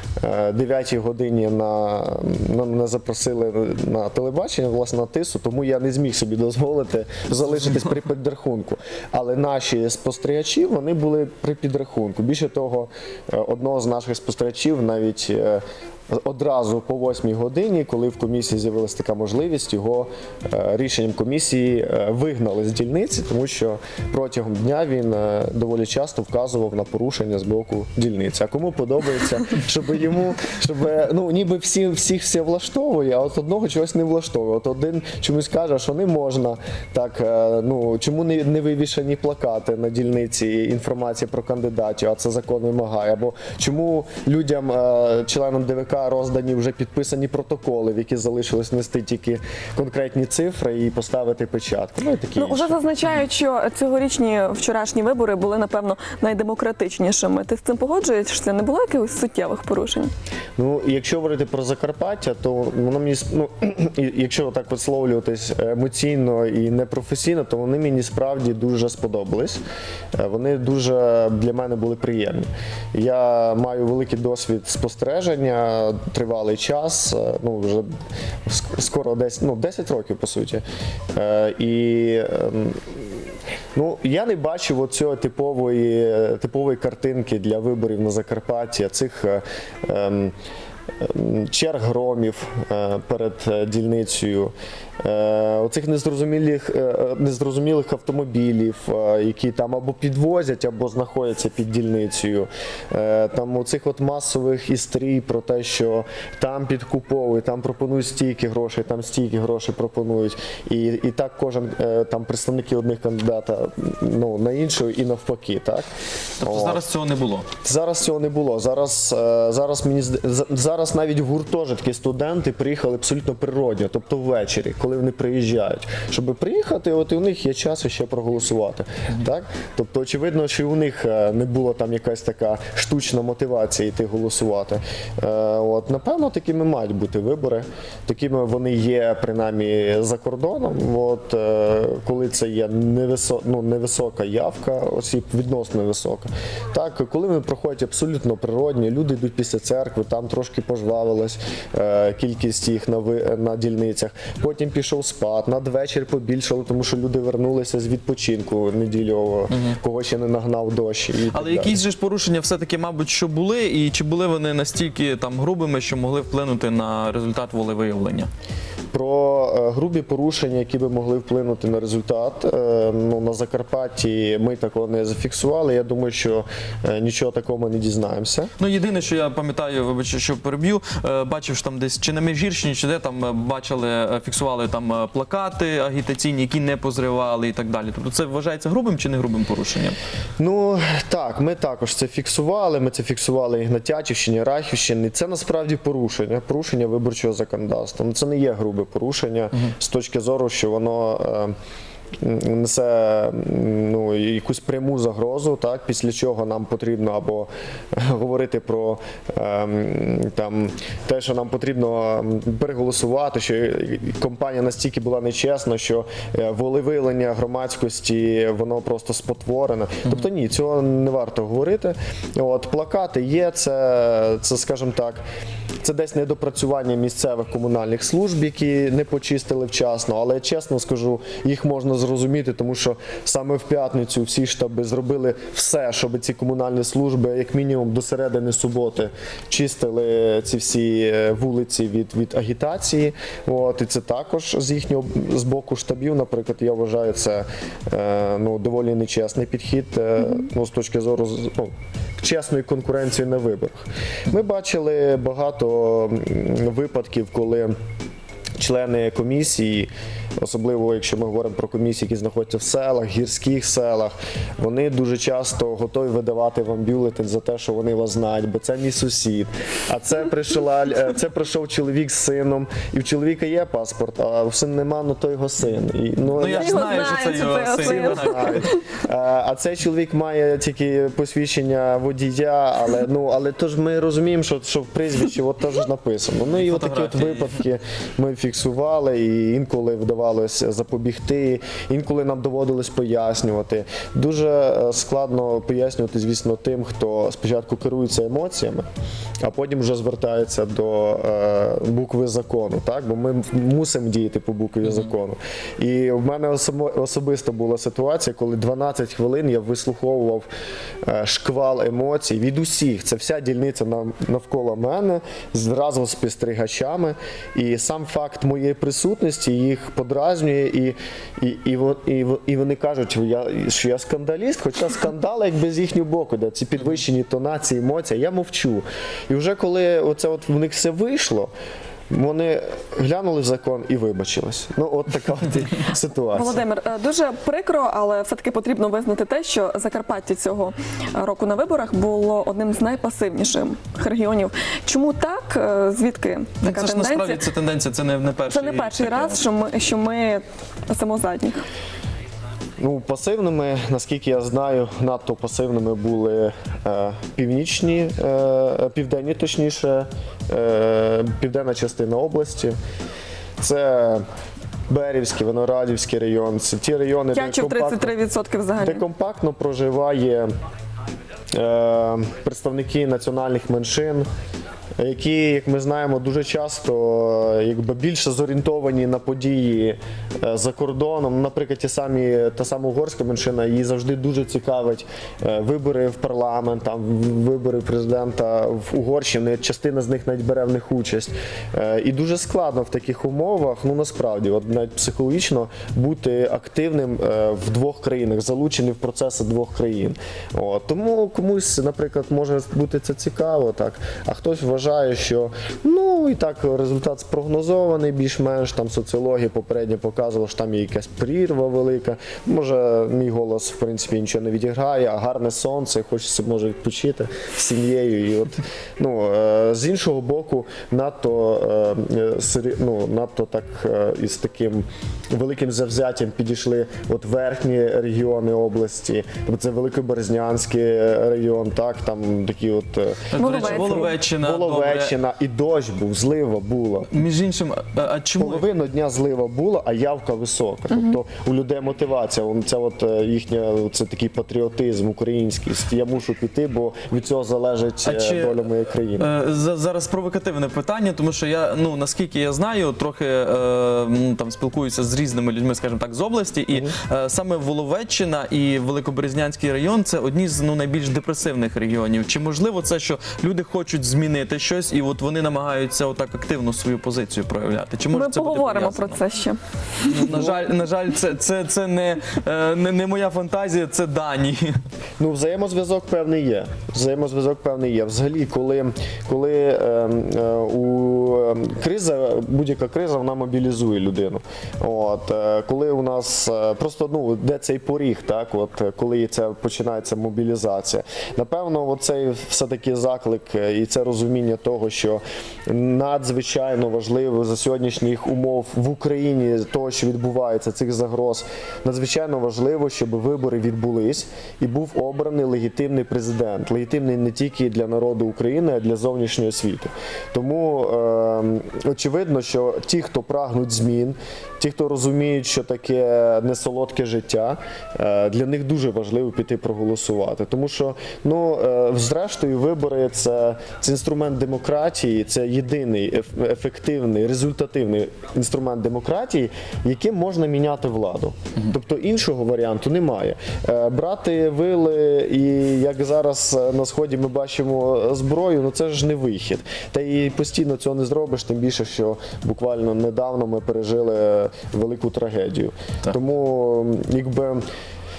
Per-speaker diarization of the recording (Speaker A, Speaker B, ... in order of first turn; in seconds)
Speaker A: 0.2-52.8, 60.6-69.6, 70.2-77.9, 78.5-83.1, 83.7-90.3, 91.0-115.9, 116.4-116.9, 117.6-161.8, 168.9-178.5, 190.4-201.5, 202.2-225.2, 225.8-257.8, 258.6-277.1, 277.7-298.9, 299.4-310.5, 311.1-331.5, 332.1-336.6, 352.8-362.8, 363.6-364.2, 364.9-368.1, 368.8-370.5, 371.5-374.3, 375.0-437.1, 438.4-449.3, 470.3-470.7, 475.2-547.6
Speaker B: 7.4-7.9, 116.4-117.5, 159.5-159.8, 161.3-168.3, 178.6-190.0, 276.4-278.6, 286.5-287.6, 346.6-349.4, 433.3-435.1, 437.1-438.6, 448.1-448.6, 449.2-469.2, 470.1-474.8
Speaker C: 52.4-60.1, 276.5-279.0, 336.3-347.5, 348.5-351.6, 367.3-369.1, 433.4-434.1, 468.1-470.1